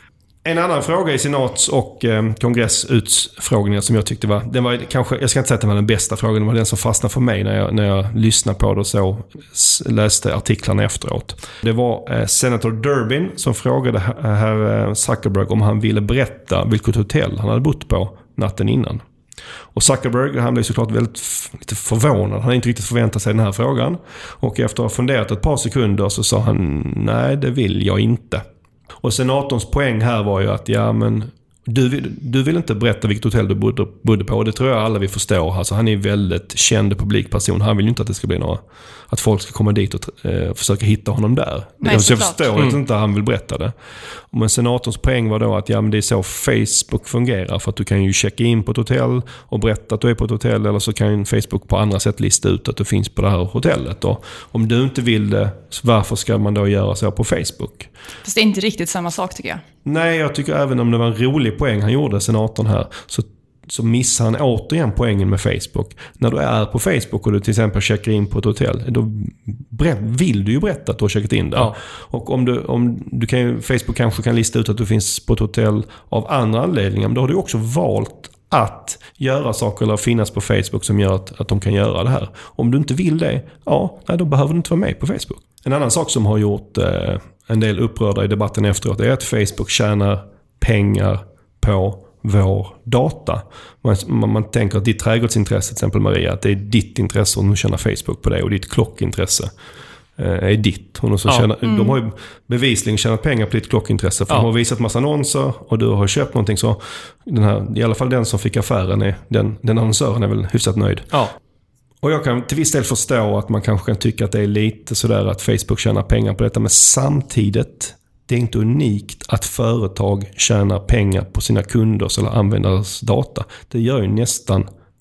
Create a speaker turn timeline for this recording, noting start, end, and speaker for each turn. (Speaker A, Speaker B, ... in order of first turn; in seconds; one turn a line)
Speaker A: 0.4-19.0
Speaker A: 19.7-28.4
Speaker A: 29.0-43.7
Speaker B: 41.8-42.4
Speaker A: 44.3-57.9
Speaker B: 58.2-59.6
Speaker A: 59.8-99.5
Speaker A: 100.2-111.1
Speaker B: 101.6-102.0
Speaker A: 112.0-124.7